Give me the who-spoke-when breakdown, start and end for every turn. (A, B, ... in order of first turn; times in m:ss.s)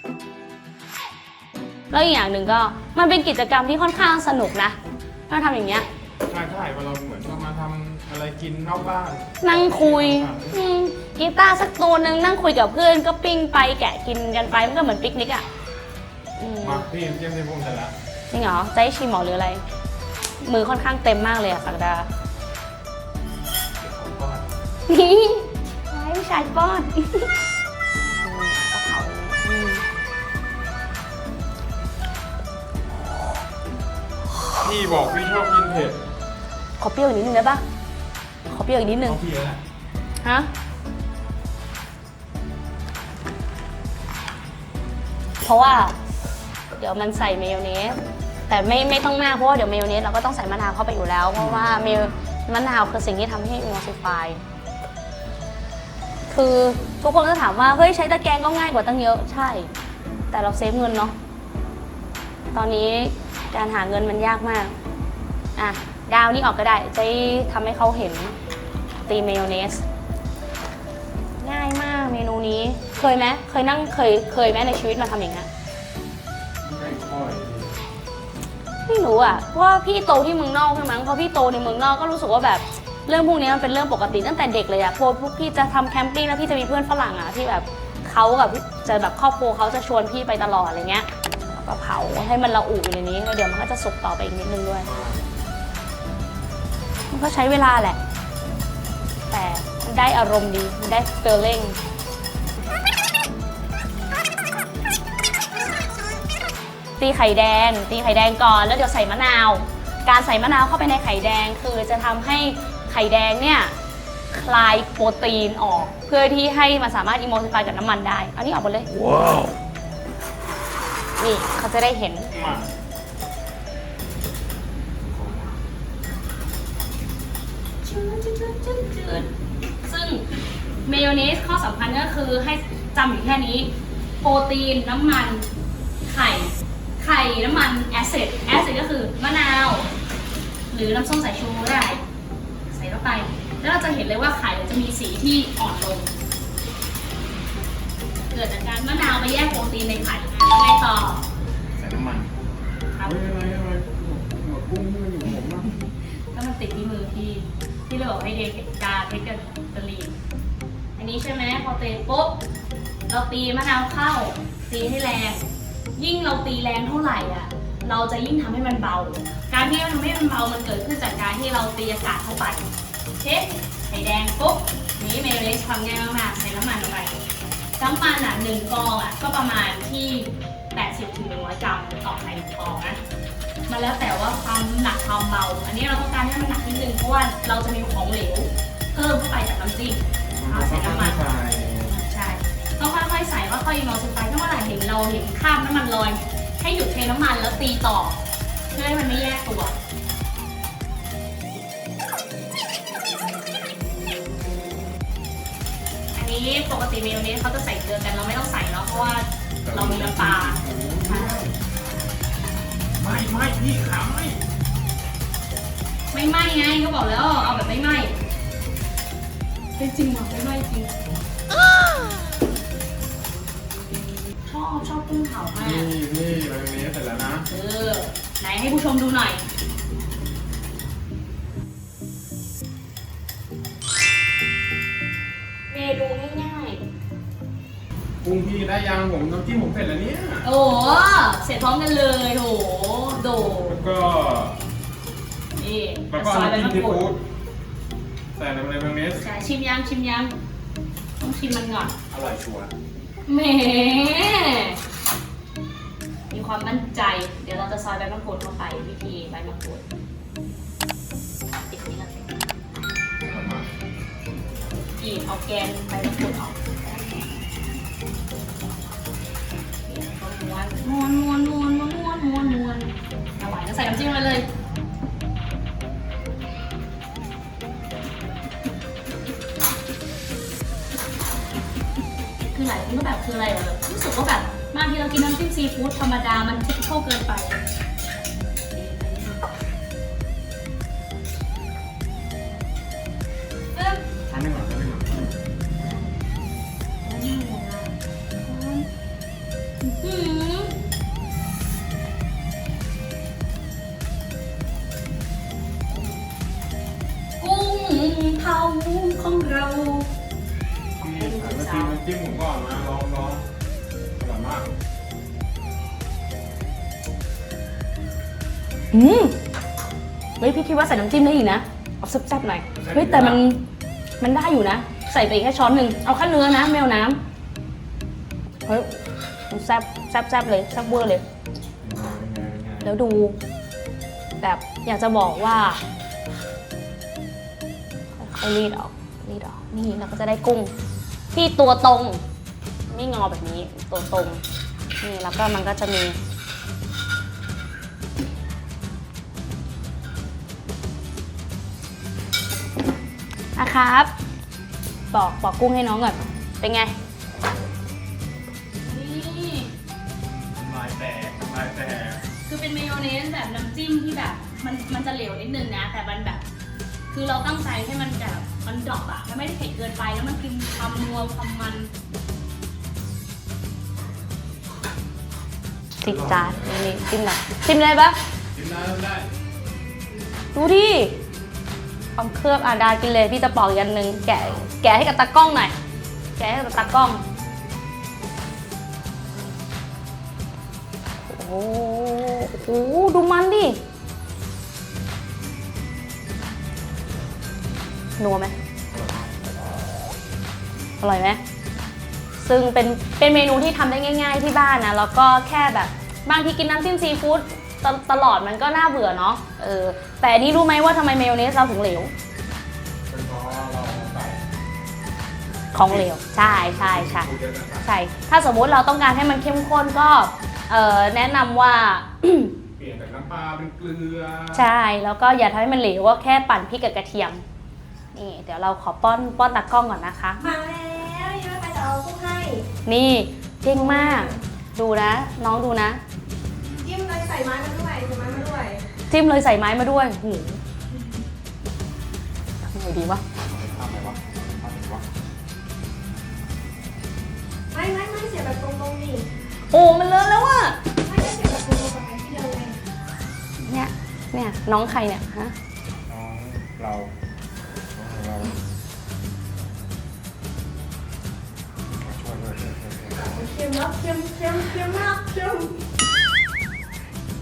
0:01.9-0:04.8 A
0:05.3-0:05.9 A
0:06.3-0:10.6 B
0:09.4-0:15.4 A
0:16.4-0:16.9 A
0:16.6-0:17.9 B
0:18.3-0:19.6 A
0:20.4-0:22.1 A
0:23.8-0:24.5 B
0:24.9-0:27.3 A
0:28.2-0:29.8 A
0:34.3-0:34.6 A
0:34.6-0:36.0 B
0:36.8-0:37.6 A
0:38.5-0:39.2 A
0:39.0-0:39.6 B
0:40.2-0:40.5 A
0:45.4-0:46.0 A
0:46.8-0:54.4 A
0:51.4-0:52.1 B
0:56.3-0:59.7 A
1:00.3-1:01.1 A
1:02.5-1:04.7 A
1:05.6-1:08.3 A
1:09.1-1:09.8 A
1:11.4-1:15.5 A
1:16.6-1:17.7 B
1:18.8-1:34.9 A
1:34.8-1:35.2 B
1:37.1-1:38.0 A
1:39.3-1:41.8 A
1:47.0-1:53.7 A
1:54.3-1:58.9 A
2:01.2-2:02.3 A
2:02.3-2:02.7 B
2:05.0-2:05.5 B
2:07.8-2:09.3 A
2:09.8-2:10.2 A
2:10.8-2:13.7 A
2:14.2-2:15.4 A
2:16.0-2:19.9 A
2:20.7-2:22.0 A
2:22.7-2:26.1 A
2:28.3-2:31.2 A
2:31.8-2:32.4 B
2:32.9-2:33.2 A
2:33.0-2:35.7 B
2:36.3-2:40.1 A
2:41.0-2:42.4 A
2:43.1-2:57.1 A
2:57.8-3:03.0 A
3:03.7-3:11.2 A
3:10.4-3:12.0 B
3:11.9-3:18.2 A
3:18.7-3:19.8 A
3:26.1-3:31.4 A
3:29.6-3:31.6 B
3:33.0-3:34.4 B
3:36.1-3:38.2 A
3:39.8-3:40.9 A
3:44.4-3:45.9 A
3:45.6-3:47.5 B
3:47.5-3:49.4 A
3:55.7-3:56.8 A
3:58.2-4:00.5 B
4:00.4-4:03.9 A
4:03.6-4:04.6 B
4:05.6-4:07.0 A
4:06.1-4:07.2 B
4:08.3-4:09.3 B
4:09.2-4:10.3 A
4:11.2-4:12.0 A
4:12.1-4:12.7 B
4:13.2-4:14.8 A
4:16.3-4:19.8 A
4:21.7-4:22.2 A
4:23.2-4:23.7 B
4:25.0-4:27.3 A
4:29.9-4:34.5 A
4:42.4-4:47.6 A
4:48.7-4:49.5 A
4:53.7-4:54.0 A
4:54.3-4:55.3 B
4:55.8-4:56.1 A
4:57.0-4:58.9 A
4:59.8-5:00.8 A
5:07.4-5:10.1 A
5:11.0-5:13.4 B
5:11.0-5:12.0 A
5:14.2-5:14.7 B
5:18.9-5:19.4 A
5:20.4-5:23.6 A
5:22.8-5:23.4 B
5:24.2-5:27.2 A
5:28.6-5:29.0 A
5:29.5-5:31.2 A
5:31.8-5:33.0 B
5:32.8-5:33.4 A
5:34.4-5:35.8 A
5:38.2-5:40.7 A
5:41.3-5:42.2 A
5:42.9-5:44.4 A
5:45.0-5:46.2 A
5:53.6-5:54.1 A
5:55.1-5:56.9 A
5:58.8-5:59.7 A
6:00.6-6:02.2 B
6:02.5-6:06.4 A
6:07.1-6:11.9 A
6:16.0-6:18.2 A
6:16.0-6:17.0 B
6:18.5-6:19.3 B
6:20.5-6:21.2 A
6:22.2-6:25.7 A
6:26.4-6:27.2 A
6:31.2-6:33.8 A
6:38.2-6:38.5 A
6:41.0-6:41.4 A
6:42.4-6:52.1 A
6:53.1-6:54.4 B
6:55.7-6:57.3 A
6:55.8-6:57.9 B
6:57.8-7:02.5 A
7:02.8-7:04.7 B
7:04.5-7:07.4 A
7:08.1-7:10.4 A
7:10.4-7:12.7 C
7:12.9-7:16.0 A
7:13.7-7:14.4 C
7:16.6-7:18.8 C
7:19.1-7:20.6 A
7:22.7-7:23.2 A
7:23.5-7:25.0 B
7:27.7-7:29.3 C
7:29.7-7:30.8 A
7:31.0-7:32.8 C
7:33.6-7:35.5 A
7:36.1-7:37.1 B
7:37.9-7:38.6 B
7:42.0-7:43.4 B
7:43.3-7:45.8 C